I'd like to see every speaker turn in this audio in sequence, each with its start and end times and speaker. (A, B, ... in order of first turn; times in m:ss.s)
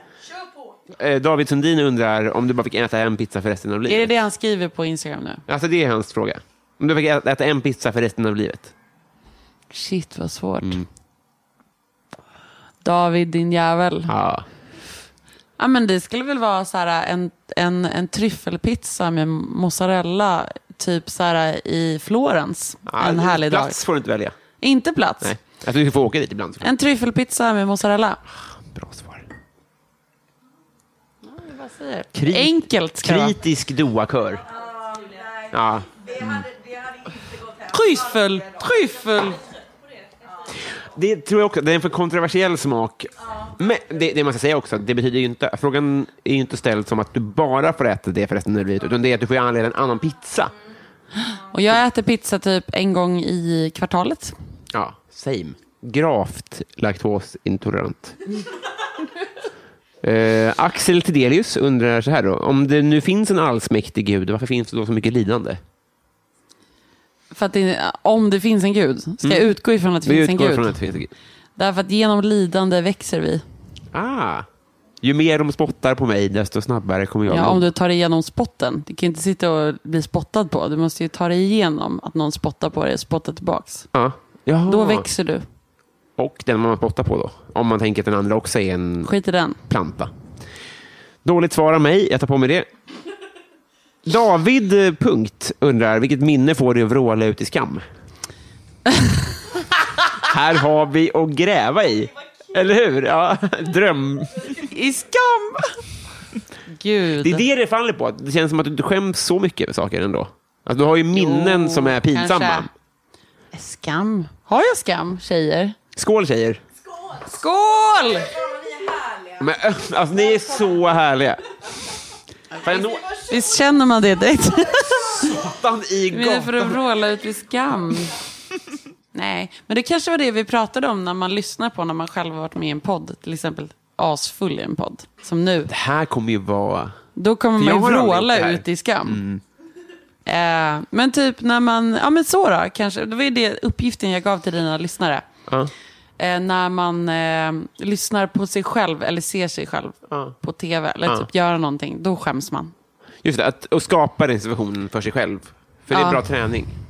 0:00.9-0:04.1 A
0:03.9-0:05.4 B
0:05.5-0:08.7 A
0:09.7-0:10.8 B
0:12.8-0:14.1 B
0:14.1-0:14.5 A
0:15.6-0:23.8 B
0:22.9-0:24.4 A
0:24.6-0:25.3 B
0:25.2-0:26.7 A
0:26.6-0:28.2 B
0:28.4-0:29.3 A
0:31.2-0:33.4 B
0:32.1-0:34.5 A
0:35.4-0:36.5 A
0:37.6-0:39.4 B
0:40.6-0:50.5 A
0:51.2-0:54.3 B
0:54.7-0:58.2 A
1:00.0-1:05.6 A
1:07.3-1:10.8 B
1:09.2-1:09.5 A
1:10.0-1:11.1 A
1:11.6-1:13.4 B
1:13.9-1:14.5 A
1:15.0-1:17.7 A
1:17.3-1:23.9 B
1:23.9-1:25.1 A
1:24.7-1:25.4 B
1:26.2-1:29.1 A
1:29.0-1:29.6 B
1:29.7-1:30.1 A
1:31.2-1:32.7 A
1:34.0-1:37.8 A
1:40.2-1:44.6 A
1:44.5-1:45.8 B
1:46.7-1:47.4 B
1:47.2-1:52.7 A
1:51.1-1:52.7 B
1:53.5-1:55.8 B
1:56.0-1:56.6 A
1:57.2-1:58.4 B
1:59.4-2:01.4 A
2:02.5-2:05.3 B
2:02.6-2:03.2 A
2:04.7-2:06.8 A
2:06.1-2:08.2 B
2:09.1-2:15.7 B
2:15.7-2:17.0 A
2:17.2-2:19.2 B
2:17.6-2:19.4 A
2:20.2-2:25.2 B
2:25.5-2:25.7 A
2:26.2-2:32.7 B
2:30.1-2:30.3 A
2:33.2-2:36.7 A
2:35.9-2:36.2 B